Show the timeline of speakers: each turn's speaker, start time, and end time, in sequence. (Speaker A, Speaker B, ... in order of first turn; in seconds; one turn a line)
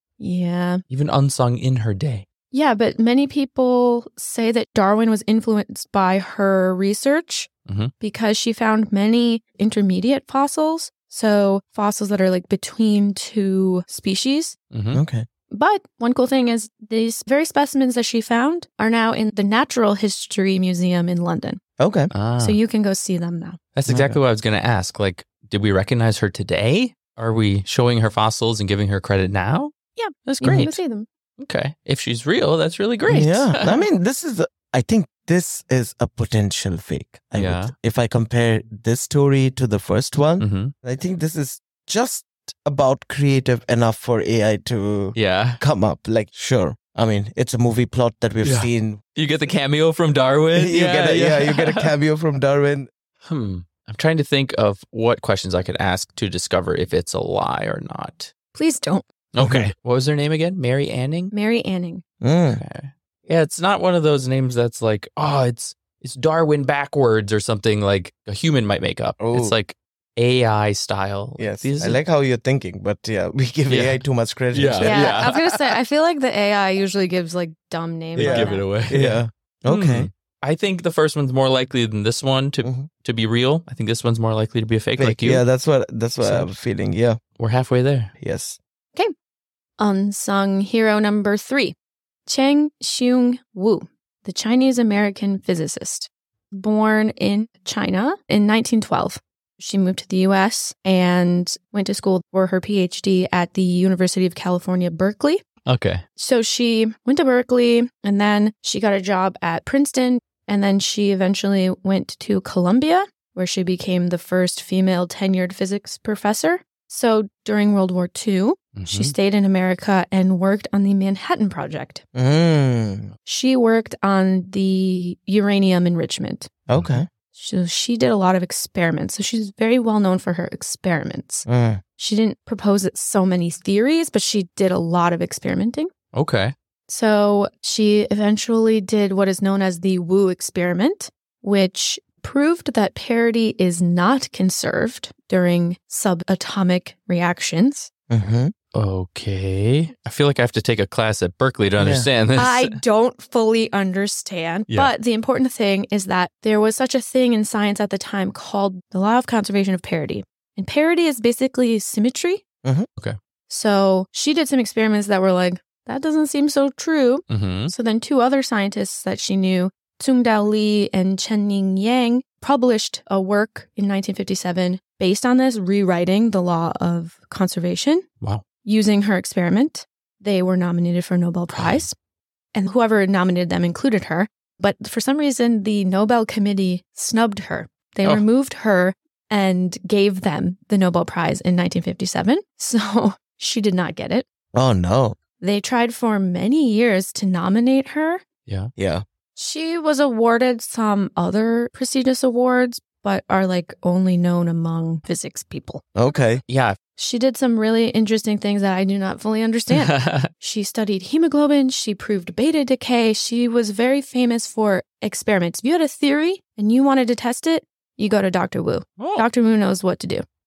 Speaker A: 0.2-0.8
Speaker B: 0.9-2.2
Speaker A: 2.5-14.6
Speaker B: 7.7-7.9
Speaker B: 14.7-15.0
Speaker C: 14.9-15.2
Speaker A: 15.5-21.6
Speaker C: 21.8-22.1
Speaker B: 22.1-22.6
Speaker A: 22.4-23.6
Speaker B: 23.7-29.7
Speaker C: 23.9-24.2
Speaker A: 30.0-31.1
Speaker B: 30.2-30.8
Speaker C: 30.4-30.8
Speaker B: 31.4-33.9
Speaker C: 33.1-49.0
Speaker B: 37.3-37.7
Speaker B: 40.4-40.7
Speaker B: 45.1-45.6
Speaker B: 48.4-51.9
Speaker C: 50.5-52.9
Speaker B: 53.2-58.3
Speaker A: 58.5-59.0
Speaker B: 59.3-61.3
Speaker C: 59.4-59.7
Speaker A: 61.3-62.0
Speaker C: 62.2-62.6
Speaker B: 62.5-72.0
Speaker C: 69.2-69.6
Speaker C: 71.4-75.2
Speaker B: 73.7-75.6
Speaker A: 74.8-78.7
Speaker C: 78.2-80.1
Speaker B: 78.2-85.4
Speaker C: 82.6-82.9
Speaker C: 85.0-87.2
Speaker B: 86.2-86.5
Speaker B: 87.4-88.1
Speaker C: 88.2-88.6
Speaker A: 89.8-91.7
Speaker A: 92.3-105.4
Speaker B: 105.7-106.0
Speaker A: 106.2-122.0
Speaker B: 118.7-119.1
Speaker C: 122.1-123.1
Speaker A: 123.2-126.5
Speaker C: 126.7-127.1
Speaker B: 126.7-127.0
Speaker A: 127.3-131.4
Speaker C: 131.4-131.8
Speaker A: 132.0-135.9
Speaker B: 136.1-136.5
Speaker A: 136.9-147.9
Speaker C: 148.1-148.5
Speaker B: 148.7-152.8
Speaker C: 151.8-152.1
Speaker A: 152.3-162.4
Speaker A: 163.5-178.0
Speaker B: 167.3-167.7
Speaker A: 178.6-181.9
Speaker B: 181.5-181.8
Speaker A: 182.5-194.2
Speaker C: 194.5-195.2
Speaker A: 195.4-198.2
Speaker B: 198.4-198.7
Speaker C: 198.8-199.0
Speaker A: 199.3-205.8
Speaker C: 205.9-206.4
Speaker B: 206.5-206.8
Speaker A: 207.0-220.2
Speaker B: 209.7-210.3
Speaker B: 219.0-219.2